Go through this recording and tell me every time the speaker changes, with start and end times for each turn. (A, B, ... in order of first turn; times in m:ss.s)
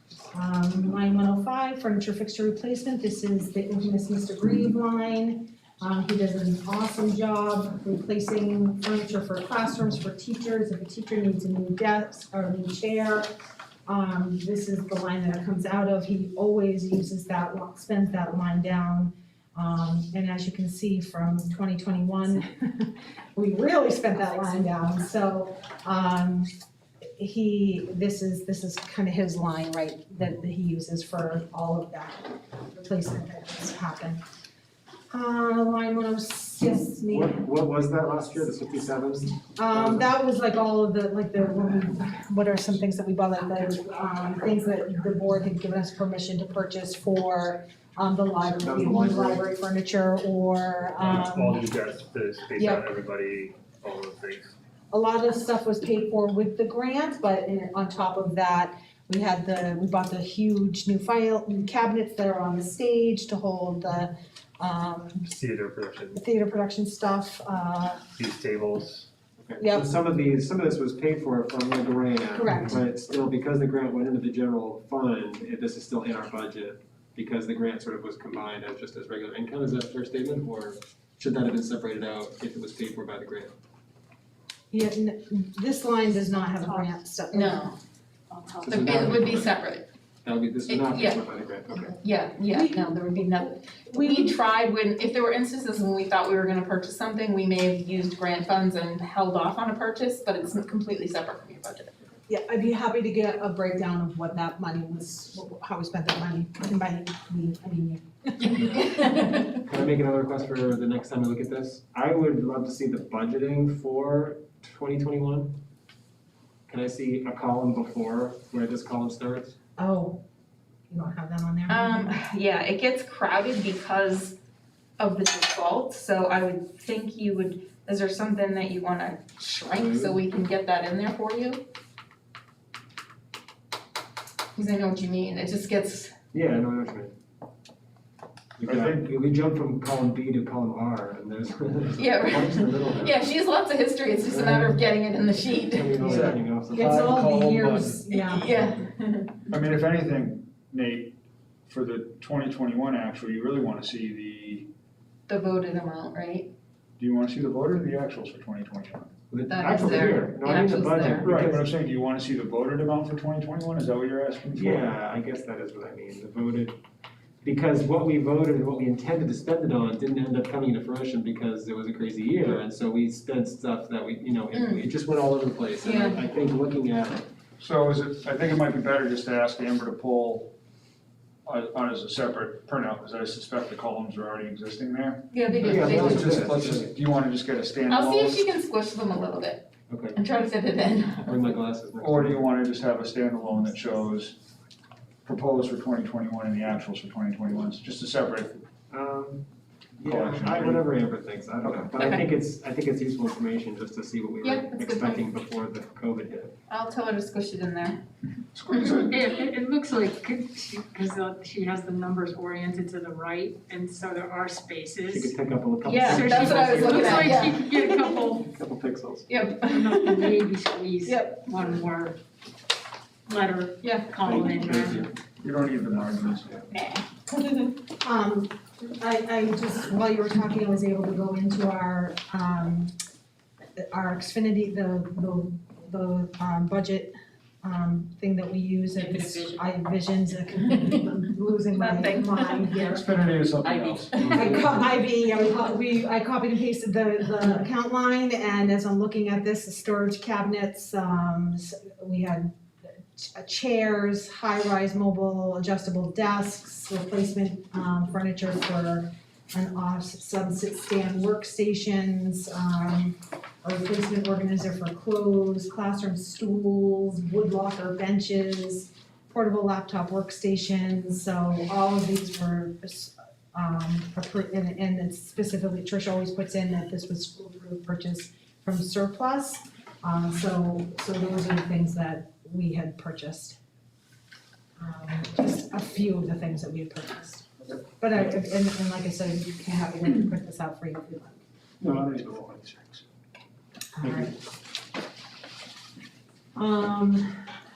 0:00.3-0:13.3 A
0:13.9-0:26.5 A
0:27.2-0:34.2 A
0:35.1-0:37.4 A
0:37.1-0:40.1 B
0:39.6-0:51.6 A
0:48.6-0:49.4 B
0:51.0-0:54.5 C
0:54.9-1:05.4 A
1:05.3-1:06.2 C
1:06.2-1:08.0 A
1:08.2-1:09.1 C
1:09.4-1:23.5 B
1:09.6-1:10.0 A
1:12.3-1:12.8 A
1:24.7-1:27.7 A
1:26.6-1:26.9 D
1:27.3-1:27.8 E
1:28.3-1:29.1 D
1:28.6-1:29.6 B
1:28.7-1:29.9 E
1:30.2-1:32.0 B
1:30.7-1:31.2 E
1:32.0-1:42.0 E
1:32.5-1:34.4 A
1:42.3-1:49.0 A
1:48.4-1:49.6 E
1:48.6-1:48.9 B
1:49.6-1:55.6 B
1:56.7-1:59.6 B
1:59.8-2:00.2 A
2:00.9-2:02.2 A
2:01.7-2:04.4 E
2:05.0-2:11.6 E
2:09.7-2:10.2 B
2:14.6-2:16.1 E
2:16.3-2:17.1 B
2:18.6-2:23.3 B
2:18.7-2:19.1 F
2:22.0-2:26.2 E
2:24.3-2:24.9 B
2:25.6-2:27.3 B
2:26.0-2:28.0 F
2:26.7-2:28.6 A
2:28.1-2:29.5 E
2:29.5-2:34.7 F
2:35.3-2:36.5 E
2:37.0-2:39.1 F
2:39.3-2:41.7 B
2:39.5-2:41.3 E
2:41.2-2:44.9 F
2:44.5-2:46.8 B
2:47.4-2:57.3 B
2:54.5-2:54.8 E
2:55.8-2:56.2 E
2:57.6-3:00.5 F
3:01.5-3:08.4 F
3:05.3-3:06.3 E
3:05.5-3:07.0 B
3:07.9-3:11.5 E
3:09.9-3:10.2 B
3:11.3-3:12.5 B
3:12.0-3:14.4 F
3:15.2-3:18.6 F
3:18.9-3:19.4 B
3:20.0-3:26.5 B
3:20.0-3:20.9 F
3:21.6-3:21.9 F
3:22.0-3:22.2 E
3:24.4-3:25.2 E
3:26.7-3:28.0 E
3:28.5-3:29.2 F
3:28.7-3:29.1 E
3:29.0-3:35.3 D
3:35.1-3:37.5 B
3:35.8-3:38.3 E
3:36.0-3:38.5 D
3:38.4-3:39.3 B
3:39.3-3:40.4 E
3:39.4-3:42.2 D
3:41.0-3:41.7 E
3:43.3-3:45.1 D
3:43.8-3:44.3 E
3:44.2-3:45.1 B
3:45.4-3:46.5 F
3:46.7-3:47.7 E
3:48.0-3:52.9 A
3:53.8-4:03.1 A
4:01.8-4:02.7 E
4:02.8-4:04.8 F
4:03.7-4:04.5 D
4:04.3-4:12.5 A
4:13.1-4:43.6 A
4:44.8-4:51.4 A
4:51.8-4:53.0 F
4:54.0-4:54.4 A
4:56.6-4:57.4 A